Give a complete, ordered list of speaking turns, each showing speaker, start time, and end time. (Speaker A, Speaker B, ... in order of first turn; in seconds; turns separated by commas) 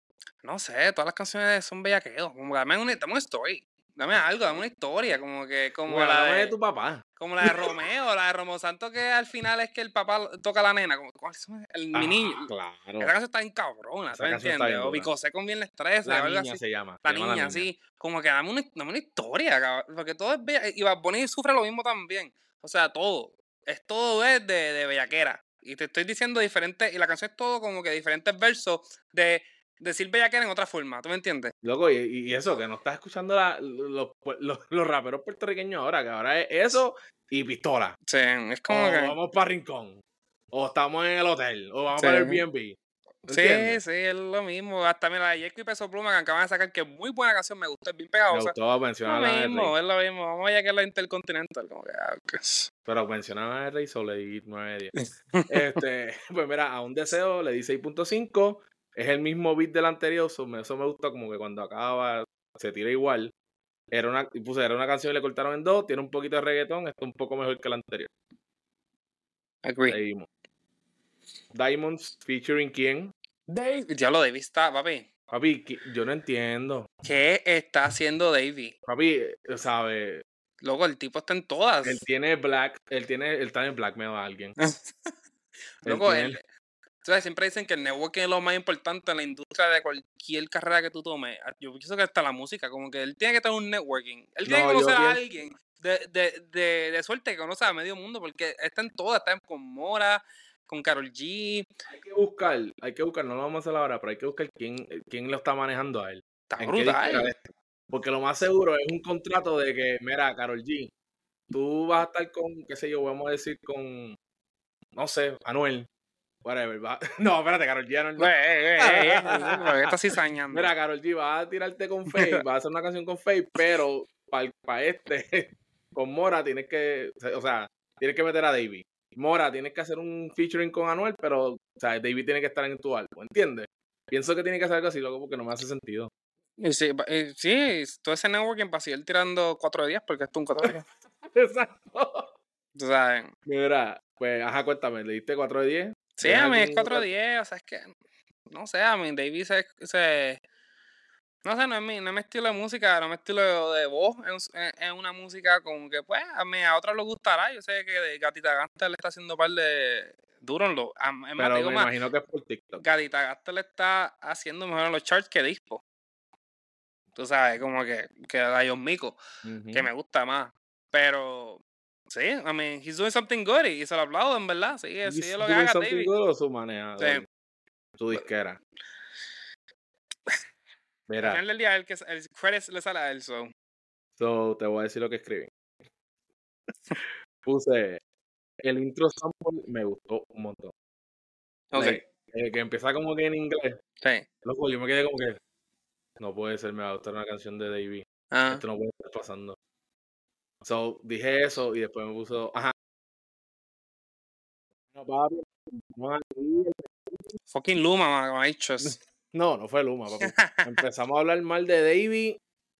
Speaker A: 0.4-6.5, Speaker B: 5.9-7.8, Speaker A: 7.2-12.5, Speaker B: 11.9-13.1, Speaker A: 13.0-31.5, Speaker B: 14.1-15.1, Speaker B: 16.0-17.7, Speaker B: 31.6-38.0, Speaker A: 38.1-39.1, Speaker B: 38.7-40.0, Speaker B: 40.5-43.8, Speaker A: 42.0-42.4, Speaker A: 43.3-48.5, Speaker B: 48.3-49.7, Speaker A: 49.0-52.7, Speaker B: 52.9-54.9, Speaker A: 55.0-55.8, Speaker B: 55.5-63.3, Speaker B: 63.9-68.1, Speaker A: 69.6-70.0, Speaker B: 69.8-70.3, Speaker B: 71.5-73.1, Speaker A: 73.5-75.1, Speaker B: 75.3-76.9, Speaker A: 77.0-78.7, Speaker B: 78.8-80.2, Speaker A: 80.6-82.0, Speaker B: 81.8-84.5, Speaker A: 84.6-85.1, Speaker A: 85.8-86.4, Speaker B: 85.8-86.4, Speaker A: 87.0-101.7, Speaker B: 94.4-95.2, Speaker B: 101.9-110.9, Speaker A: 106.5-107.3, Speaker B: 111.5-114.2, Speaker B: 115.0-115.9, Speaker B: 116.4-119.9, Speaker A: 118.2-120.7, Speaker B: 120.5-136.1, Speaker A: 122.1-122.4, Speaker A: 136.6-140.8, Speaker B: 141.3-142.3, Speaker A: 142.7-143.3, Speaker B: 143.4-147.1, Speaker A: 146.2-147.9, Speaker A: 148.5-150.4, Speaker A: 151.4-161.9, Speaker B: 161.4-162.8, Speaker A: 162.8-165.8, Speaker A: 167.2-169.2, Speaker B: 169.4-169.9, Speaker A: 169.7-176.1, Speaker B: 175.1-177.2, Speaker B: 178.0-178.6, Speaker B: 181.1-181.4, Speaker A: 181.2-183.5, Speaker B: 184.2-185.5, Speaker B: 187.0-188.0, Speaker B: 188.6-190.7, Speaker A: 191.7-192.0, Speaker B: 191.7-193.8, Speaker A: 194.0-194.2, Speaker B: 194.4-195.4, Speaker B: 196.2-199.6, Speaker A: 198.3-198.6, Speaker B: 200.6-202.7, Speaker B: 204.9-207.4, Speaker A: 207.5-209.0, Speaker B: 208.8-212.4, Speaker A: 210.2-210.8